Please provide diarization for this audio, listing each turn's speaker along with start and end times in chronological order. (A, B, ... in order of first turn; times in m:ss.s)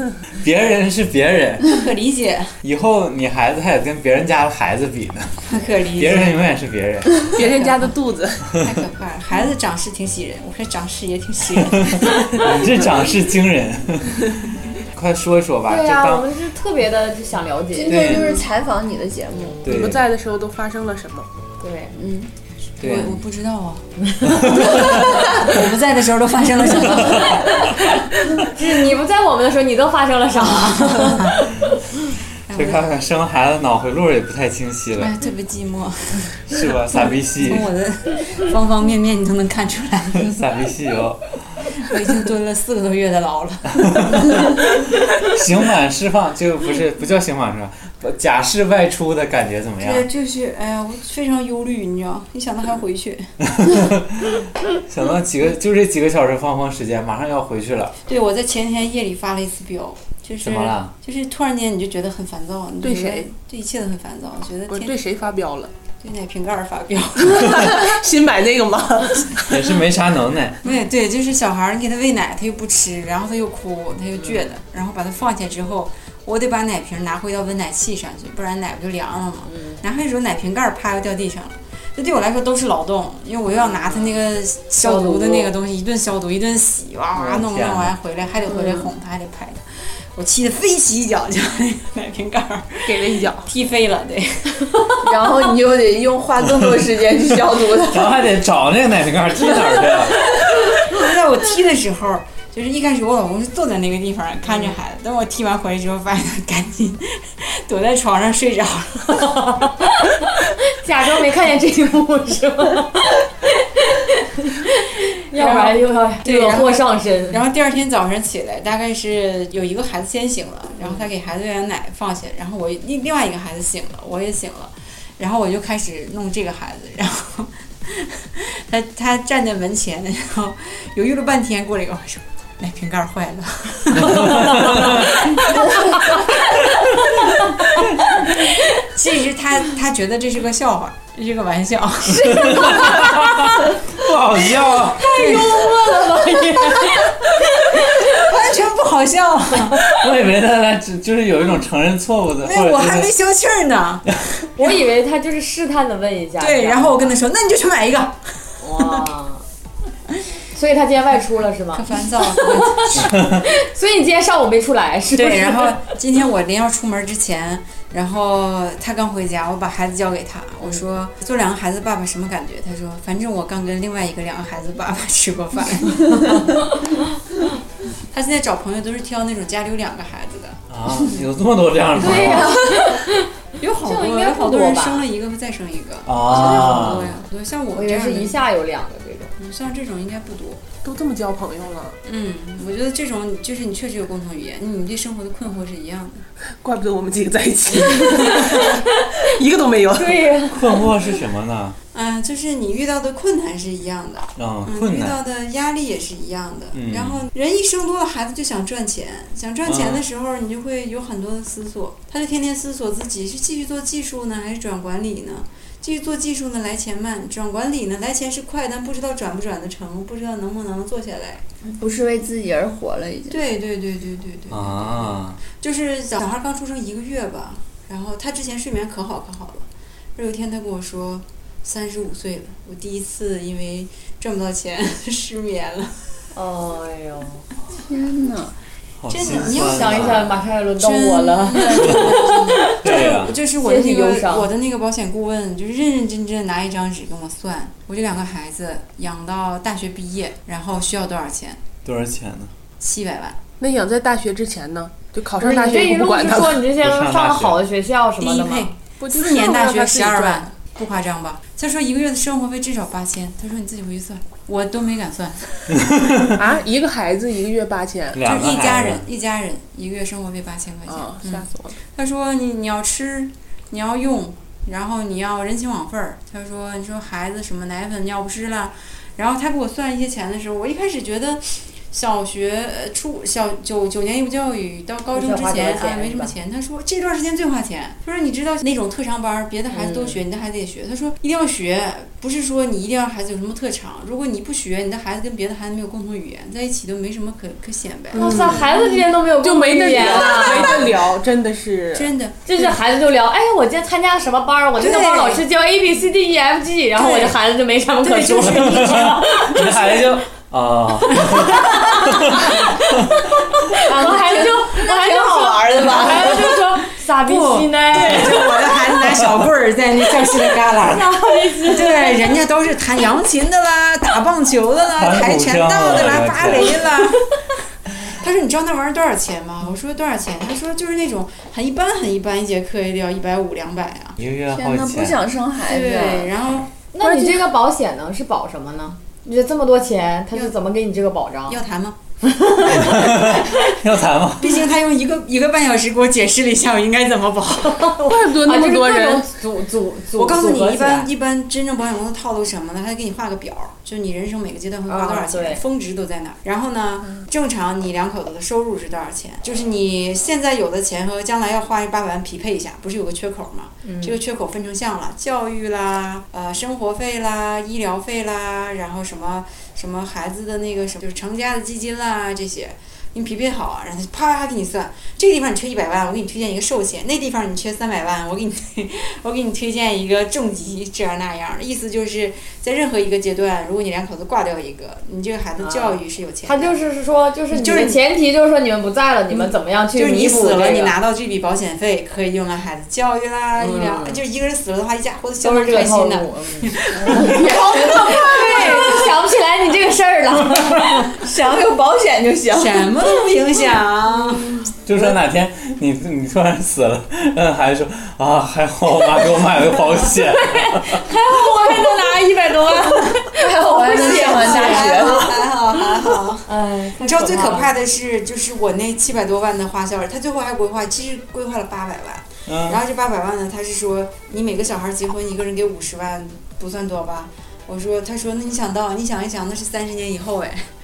0:00.3-0:01.8 A
0:01.7-0:02.6 B
0:02.6-0:05.4 A
0:05.5-0:06.4 B
0:06.0-0:07.3 A
0:07.3-0:07.9 B
0:07.4-0:08.4 C
0:08.6-0:12.6 B
0:11.8-0:16.3 A
0:15.6-0:18.2 D
0:17.7-0:19.8 E
0:17.9-0:18.4 A
0:19.6-0:20.0 A
0:19.7-0:21.3 C
0:21.6-0:22.0 D
0:22.0-0:22.3 E
0:22.8-0:23.2 A
0:22.8-0:27.8 B
0:24.2-0:25.0 D
0:24.2-0:25.6 A
0:26.8-0:27.8 A
0:27.5-0:31.4 D
0:30.4-0:31.5 B
0:32.5-0:32.9 B
0:32.5-0:35.1 A
0:35.0-0:36.6 B
0:36.5-0:37.7 A
0:37.4-0:40.6 B
0:40.2-0:41.6 A
0:41.8-0:44.5 B
0:43.8-0:50.1 A
0:49.8-0:53.3 B
0:53.4-0:58.0 A
0:58.0-1:04.9 B
1:00.4-1:00.9 A
1:02.8-1:03.2 C
1:04.7-1:05.7 C
1:06.0-1:07.9 B
1:07.3-1:09.3 C
1:09.4-1:10.6 A
1:10.6-1:34.7 B
1:19.5-1:19.8 D
1:23.7-1:24.1 D
1:24.8-1:25.5 D
1:27.1-1:27.9 A
1:28.5-1:28.8 E
1:32.8-1:33.5 C
1:35.0-1:38.3 E
1:37.8-1:40.2 A
1:39.4-1:40.6 E
1:40.8-1:49.4 B
1:49.3-1:57.4 D
1:55.3-2:16.4 B
2:13.9-2:15.1 A
2:14.2-2:18.6 D
2:16.7-2:17.0 A
2:18.8-2:23.1 B
2:22.1-2:23.6 D
2:22.2-2:25.5 A
2:24.9-2:28.3 D
2:25.1-2:26.0 B
2:28.0-2:29.8 B
2:29.8-2:33.1 A
2:32.4-2:34.7 B
2:34.6-2:37.1 D
2:36.4-2:38.9 B
2:38.6-2:39.4 D
2:40.5-2:46.0 D
2:41.7-2:43.1 B
2:43.0-2:43.4 A
2:45.2-2:56.6 B
2:56.1-2:57.0 D
2:58.1-3:01.3 B
3:00.7-3:02.6 A
3:02.0-3:05.0 D
3:02.0-3:03.0 E
3:02.0-3:02.9 B
3:03.6-3:08.4 B
3:06.1-3:07.2 A
3:06.6-3:06.9 D
3:07.7-3:09.3 D
3:09.4-3:10.6 B
3:10.8-3:12.0 C
3:12.0-3:16.2 B
3:16.6-3:20.4 C
3:17.9-3:18.8 D
3:20.0-3:20.8 D
3:20.5-3:21.8 A
3:21.9-3:41.4 B
3:24.4-3:25.2 A
3:26.7-3:27.3 A
3:29.6-3:30.0 A
3:41.6-3:43.4 E
3:43.3-3:56.1 B
3:44.5-3:45.4 A
3:56.3-3:57.4 D
3:57.7-3:58.5 E
3:59.0-4:00.4 A
3:59.1-4:00.2 B
3:59.6-4:04.5 D
4:00.8-4:11.7 B
4:01.8-4:03.4 A
4:11.8-4:12.5 A
4:12.8-4:13.4 B
4:13.6-4:16.6 C
4:15.4-4:18.7 D
4:16.7-4:17.6 A
4:18.2-4:25.9 B
4:19.0-4:20.5 C
4:25.8-4:26.4 A
4:26.4-4:28.2 C
4:28.1-4:29.0 A
4:28.2-4:58.5 B
4:30.9-4:31.8 C
4:45.1-4:46.3 D
4:49.7-4:50.2 D
4:58.1-5:02.6 C
4:58.2-5:00.8 D
5:00.0-5:00.8 B
5:01.9-5:02.4 B
5:02.4-5:10.2 D
5:04.8-5:05.4 B
5:07.0-5:07.4 B
5:08.0-5:10.0 B
5:08.4-5:13.2 A
5:11.1-5:18.8 D
5:13.8-5:16.6 E
5:16.3-5:34.2 B
5:17.9-5:18.5 A
5:19.0-5:19.3 A
5:20.8-5:22.4 D
5:25.0-5:26.9 A
5:34.2-5:35.2 A
5:34.5-5:36.3 E
5:35.6-5:36.7 B
5:36.9-5:41.6 D
5:37.0-5:37.4 E
5:41.5-5:42.0 B
5:42.2-5:43.0 D
5:42.7-5:44.6 A
5:42.7-5:43.6 B
5:44.4-5:48.0 B
5:47.8-5:51.1 D
5:48.1-5:49.3 C
5:50.2-6:26.8 B
5:54.9-5:55.6 D
6:03.8-6:04.2 D
6:25.6-6:31.0 D
6:27.5-6:28.0 B
6:29.3-6:39.1 B
6:33.6-6:34.2 D
6:35.4-6:41.1 D
6:36.9-6:39.1 E
6:41.0-6:42.9 E
6:42.5-6:44.6 B
6:44.8-6:51.0 A
6:50.5-6:55.2 D
6:52.9-7:10.7 B
6:53.4-6:55.5 E
6:56.5-6:57.7 D
7:02.5-7:02.8 A